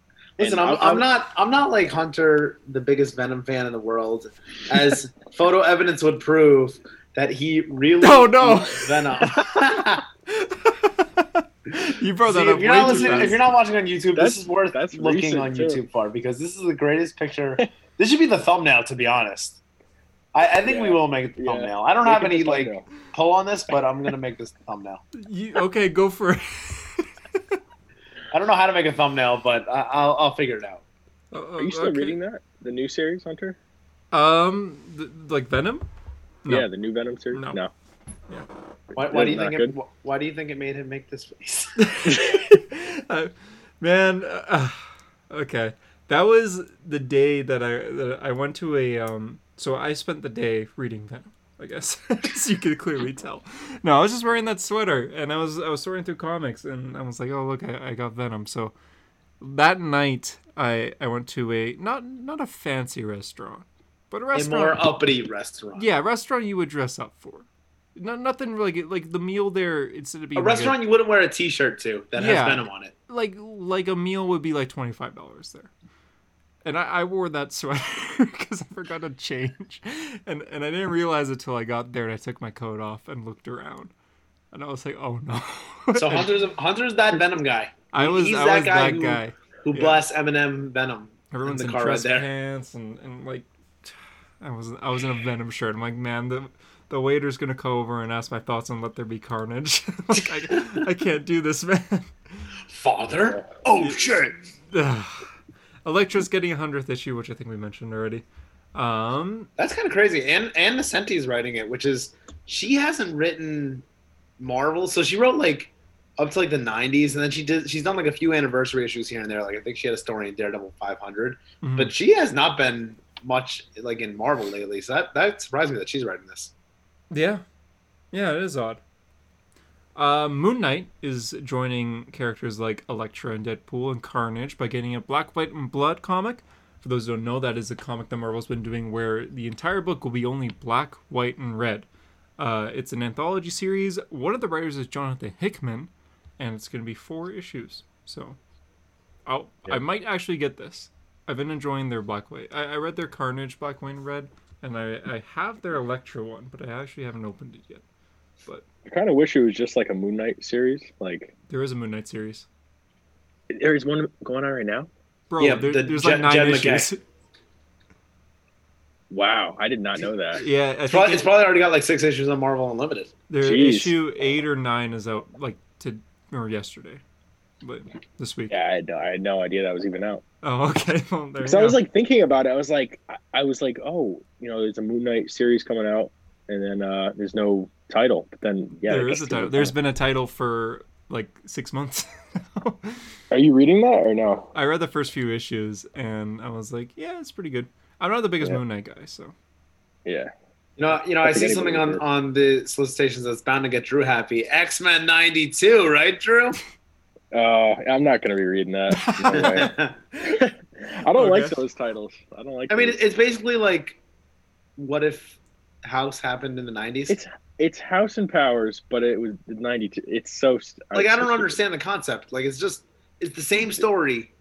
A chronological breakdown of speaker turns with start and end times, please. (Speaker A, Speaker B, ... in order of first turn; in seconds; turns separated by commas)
Speaker A: 0.4-10.1, Speaker B: 0.4-1.1, Speaker C: 8.0-9.5, Speaker C: 10.3-13.4, Speaker A: 12.3-19.6, Speaker B: 12.8-13.4, Speaker B: 14.1-15.8, Speaker A: 20.3-25.0, Speaker B: 20.7-22.9, Speaker C: 25.1-27.6, Speaker A: 28.3-30.8, Speaker C: 31.3-32.2, Speaker B: 31.6-33.6, Speaker C: 34.1-35.9, Speaker B: 36.5-37.7, Speaker C: 37.3-37.6, Speaker B: 39.0-39.7, Speaker A: 39.0-42.2, Speaker C: 41.8-58.7, Speaker C: 59.4-64.9, Speaker A: 64.3-65.9, Speaker C: 65.7-70.8, Speaker A: 70.4-72.9, Speaker C: 72.2-75.7, Speaker C: 76.6-83.9, Speaker C: 84.5-86.3, Speaker A: 86.0-92.3, Speaker C: 87.9-90.0, Speaker C: 91.3-102.6, Speaker A: 102.7-104.4, Speaker C: 103.8-105.3, Speaker C: 105.8-109.5, Speaker A: 109.6-113.8, Speaker A: 114.4-126.5, Speaker C: 121.6-121.9, Speaker C: 127.1-127.4, Speaker C: 128.1-128.8, Speaker C: 129.9-141.9, Speaker C: 142.4-148.4, Speaker C: 149.3-157.8, Speaker B: 158.8-161.3, Speaker C: 161.5-162.5, Speaker B: 163.5-164.9, Speaker C: 165.3-167.0, Speaker A: 165.4-166.9, Speaker B: 169.1-170.4, Speaker C: 170.3-171.3, Speaker A: 170.9-173.1, Speaker C: 173.3-177.0, Speaker B: 173.4-173.9, Speaker C: 177.6-178.6, Speaker B: 178.5-180.2, Speaker C: 180.4-181.8, Speaker B: 181.4-189.7, Speaker C: 188.9-193.1, Speaker B: 193.3-194.5, Speaker C: 194.5-199.3, Speaker B: 200.1-200.3, Speaker A: 200.8-206.6, Speaker B: 201.2-202.0, Speaker B: 207.3-213.0, Speaker C: 208.9-209.7, Speaker A: 209.4-209.9, Speaker C: 211.1-211.6, Speaker A: 212.7-214.0, Speaker A: 214.8-217.2, Speaker B: 217.1-221.6, Speaker A: 220.9-224.3